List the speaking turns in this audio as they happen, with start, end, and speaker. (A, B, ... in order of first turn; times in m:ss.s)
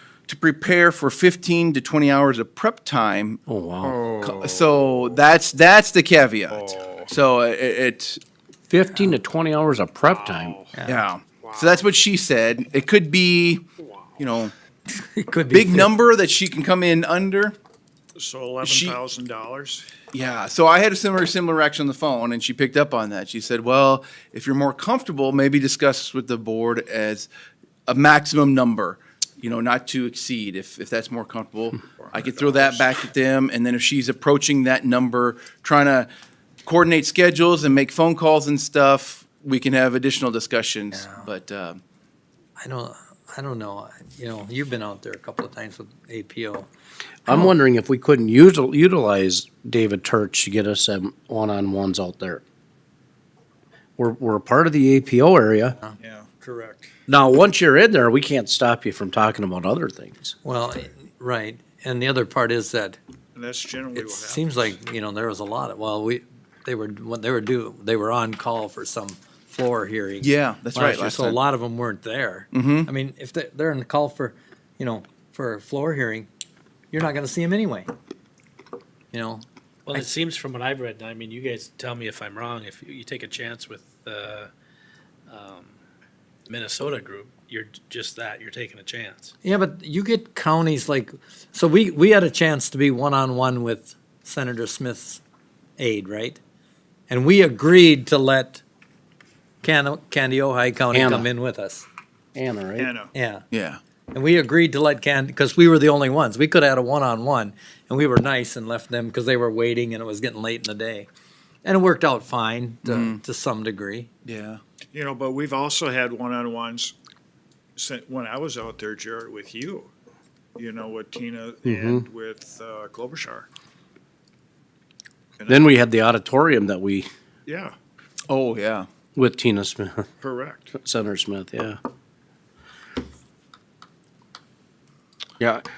0:00.3-0:03.4 A
0:03.5-0:04.1 B
0:03.9-0:04.3 C
0:04.2-0:08.2 A
0:06.5-0:07.1 C
0:08.7-0:10.6 B
0:10.1-0:10.7 C
0:10.7-0:11.0 D
0:10.8-0:13.6 A
0:11.4-0:11.8 C
0:14.2-0:14.5 A
0:15.0-0:15.9 D
0:15.5-0:17.5 A
0:18.2-0:19.8 C
0:18.6-0:19.0 A
0:20.1-0:27.3 A
0:27.9-0:36.1 A
0:32.0-0:32.9 C
0:36.6-0:41.8 A
0:40.9-0:41.3 D
0:42.6-0:46.7 D
0:47.2-0:52.4 B
0:54.0-0:55.8 B
0:56.0-0:56.9 C
0:57.1-1:00.3 B
1:00.4-1:03.0 D
1:03.3-1:04.7 C
1:03.9-1:16.3 D
1:10.2-1:11.4 A
1:12.5-1:12.9 A
1:16.9-1:17.9 D
1:19.1-1:20.1 D
1:19.9-1:24.5 E
1:25.3-1:25.7 E
1:26.5-1:29.3 E
1:29.4-1:35.2 D
1:35.8-1:36.4 D
1:37.1-1:38.6 D
1:39.6-1:41.9 D
1:40.9-1:41.3 B
1:42.3-1:42.9 B
1:42.8-1:43.1 C
1:43.1-1:43.4 D
1:43.5-1:43.8 A
1:44.1-1:51.1 D
1:51.6-1:54.1 D
1:52.8-1:53.2 A
1:54.2-1:54.6 A
1:54.9-1:56.9 C
1:57.8-1:59.9 C
2:00.6-2:03.5 C
2:01.6-2:02.0 B
2:05.4-2:05.7 C
2:05.5-2:07.1 B
2:07.4-2:07.7 C
2:08.3-2:08.9 A
2:09.1-2:10.1 B
2:10.2-2:10.7 C
2:10.7-2:11.8 B